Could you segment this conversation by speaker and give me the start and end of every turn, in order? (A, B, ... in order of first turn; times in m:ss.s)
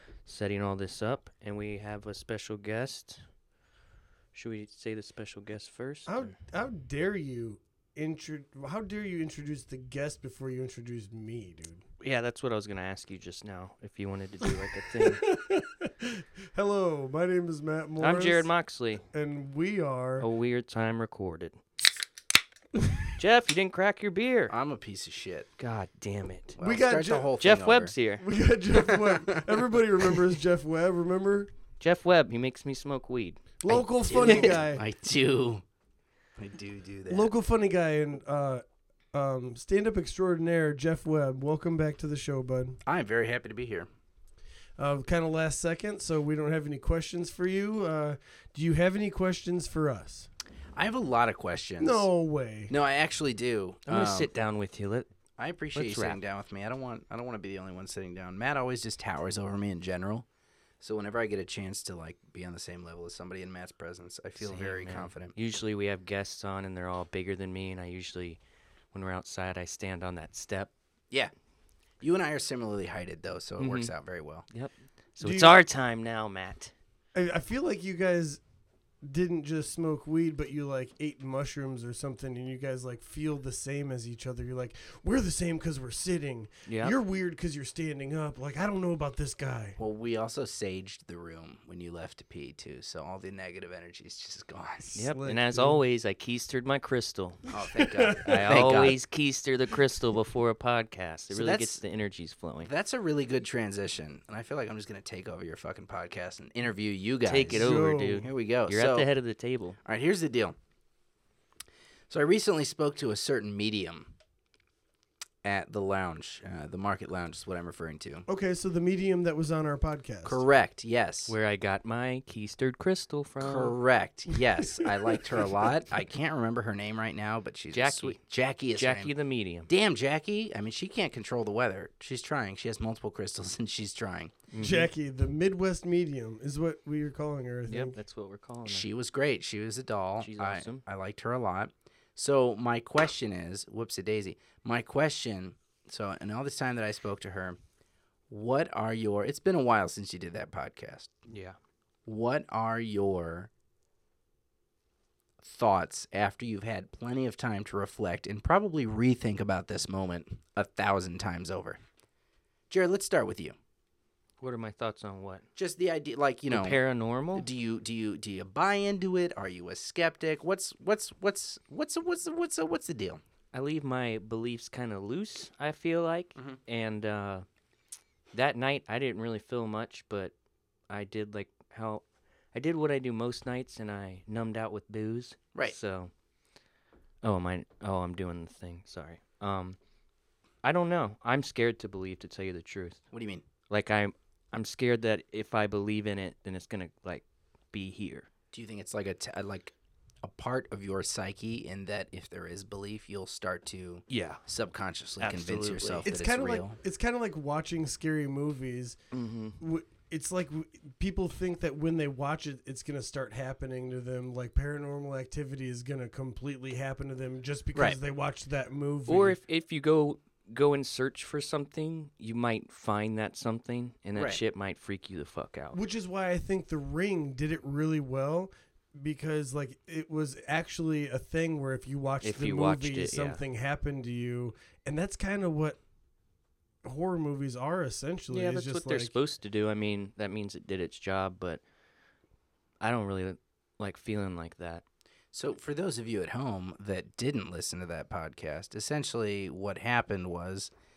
0:00.3-0:03.2 A
0:04.3-0:06.3 A
0:06.1-0:11.8 B
0:12.0-0:15.3 A
0:14.9-0:18.5 B
0:18.0-0:19.0 A
0:19.1-0:20.3 B
0:20.2-0:21.6 A
0:22.8-0:23.1 B
0:23.2-0:24.5 A
0:24.5-0:25.5 C
0:25.6-0:26.6 A
0:26.6-0:27.9 C
0:26.6-0:27.3 B
0:27.4-0:28.2 A
0:28.2-0:31.5 B
0:28.7-0:29.6 C
0:31.8-0:33.5 A
0:33.6-0:34.8 B
0:33.7-0:35.6 C
0:34.2-0:34.5 A
0:36.4-0:37.3 C
0:37.1-0:42.8 B
0:42.8-0:43.9 C
0:44.8-0:50.3 B
0:50.8-0:52.1 C
0:51.8-0:52.7 B
0:52.7-0:54.3 C
0:53.9-0:55.1 A
0:55.4-1:00.2 C
0:55.8-0:56.2 A
1:00.8-1:05.4 C
1:04.4-1:08.4 A
1:08.9-1:10.7 A
1:12.0-1:14.5 C
1:13.6-1:13.9 A
1:14.5-1:16.7 A
1:15.2-1:15.6 B
1:17.1-1:18.4 B
1:19.0-1:29.8 B
1:26.7-1:27.0 A
1:29.8-1:35.0 C
1:35.0-1:37.4 A
1:35.1-1:35.8 B
1:37.5-1:39.0 C
1:37.7-1:38.7 B
1:38.2-1:42.7 A
1:41.3-1:41.8 C
1:42.7-1:47.7 C
1:47.2-1:49.8 A
1:47.5-1:48.3 B
1:48.2-1:49.1 C
1:49.8-1:50.6 C
1:52.1-1:54.1 C
1:55.4-1:58.3 C
1:58.3-2:00.4 B
2:00.2-2:01.4 C
2:01.3-2:03.7 A
2:03.4-2:09.1 C
2:04.8-2:05.7 B
2:07.7-2:08.2 A
2:08.8-2:09.7 A
2:09.7-2:14.4 C
2:14.5-2:14.9 A
2:14.6-2:18.0 B
2:17.7-2:18.9 A
2:18.7-2:27.6 C
2:20.2-2:20.8 A
2:28.3-2:31.2 C
2:31.3-2:31.6 A
2:32.1-2:33.5 C
2:35.4-2:41.8 C
2:42.7-2:43.6 C
2:44.4-2:45.4 A
2:45.6-2:46.8 C
2:46.5-2:47.5 A
2:47.4-2:53.2 C
2:53.5-2:57.5 A
2:58.3-3:00.3 A
3:00.9-3:06.1 A
3:07.2-3:09.8 A
3:10.6-3:13.0 A
3:13.1-3:13.4 C
3:13.7-3:18.3 A
3:18.5-3:26.8 C
3:24.1-3:24.4 A
3:25.2-3:26.1 A
3:26.0-3:29.0 B
3:29.1-3:29.6 A
3:29.6-3:39.4 B
3:39.1-3:45.8 A
3:45.7-3:55.8 B
3:52.2-3:53.4 A
3:56.8-3:59.1 B
3:58.3-4:01.6 A
4:02.8-4:04.8 A
4:05.3-4:10.7 C